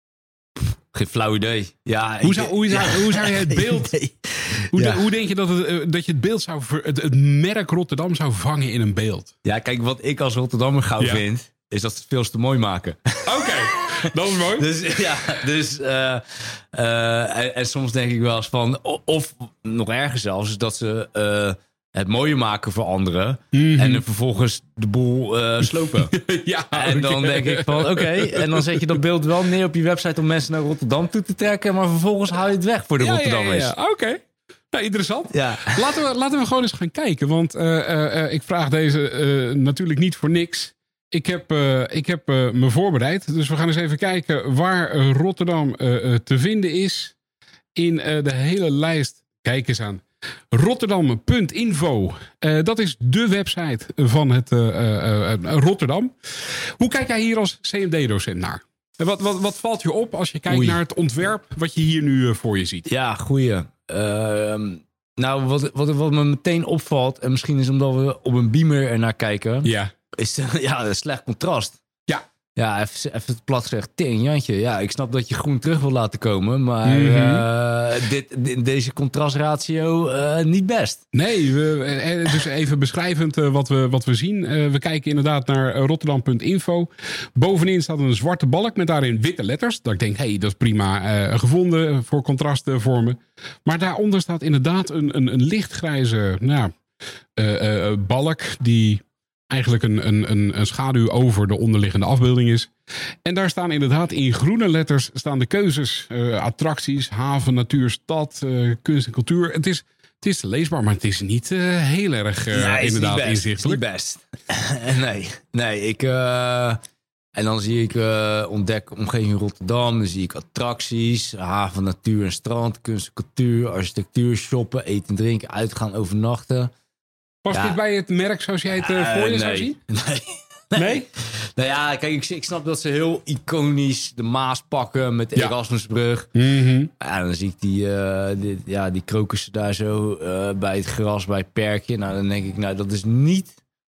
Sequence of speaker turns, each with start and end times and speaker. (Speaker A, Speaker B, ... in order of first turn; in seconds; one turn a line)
Speaker A: 0.9-5.0
Speaker B: 2.2-3.9
Speaker B: 4.7-9.3
Speaker A: 9.4-14.0
Speaker B: 13.3-14.7
Speaker A: 14.5-26.1
Speaker B: 23.5-24.0
Speaker B: 26.1-29.0
Speaker A: 26.7-33.7
Speaker B: 33.0-47.1
Speaker A: 35.3-35.9
Speaker B: 47.8-62.9
Speaker A: 60.5-60.8
Speaker A: 62.9-71.8
Speaker B: 69.6-69.9
Speaker A: 72.6-81.0
Speaker B: 76.8-77.5
Speaker B: 81.1-96.7
Speaker B: 97.4-102.7
Speaker B: 103.2-113.8
Speaker A: 112.5-116.8
Speaker A: 117.3-126.7
Speaker B: 127.5-129.8
Speaker A: 127.5-127.8
Speaker A: 128.8-136.3
Speaker B: 130.8-131.1
Speaker B: 136.3-136.9
Speaker A: 137.0-143.6